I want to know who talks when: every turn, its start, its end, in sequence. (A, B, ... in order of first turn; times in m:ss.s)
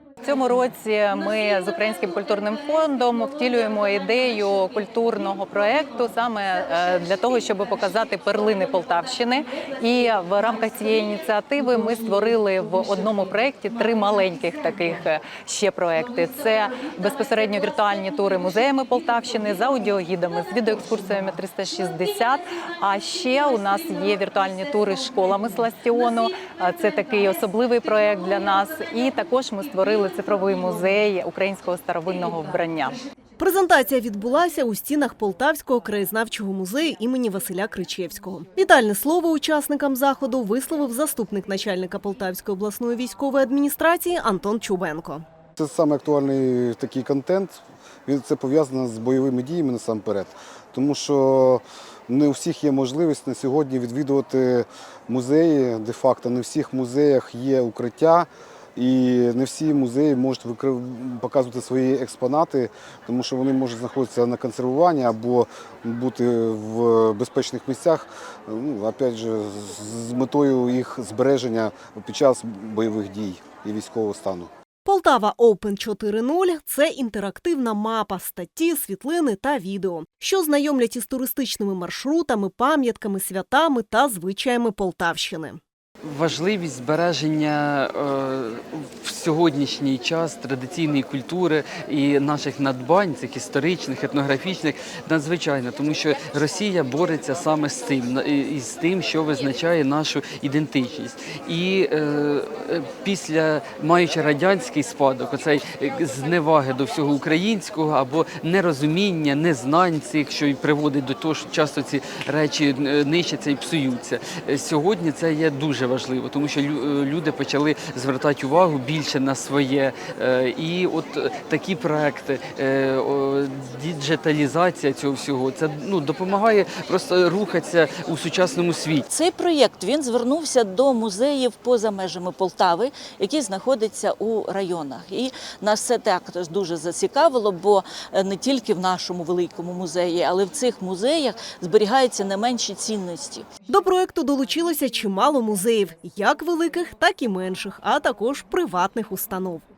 0:00.2-0:33.0 A
0:33.4-0:45.2 B
0:45.6-1:14.5 C
1:14.8-1:25.6 B
1:26.0-2:09.0 D
2:09.1-2:23.5 E
2:23.7-2:29.6 B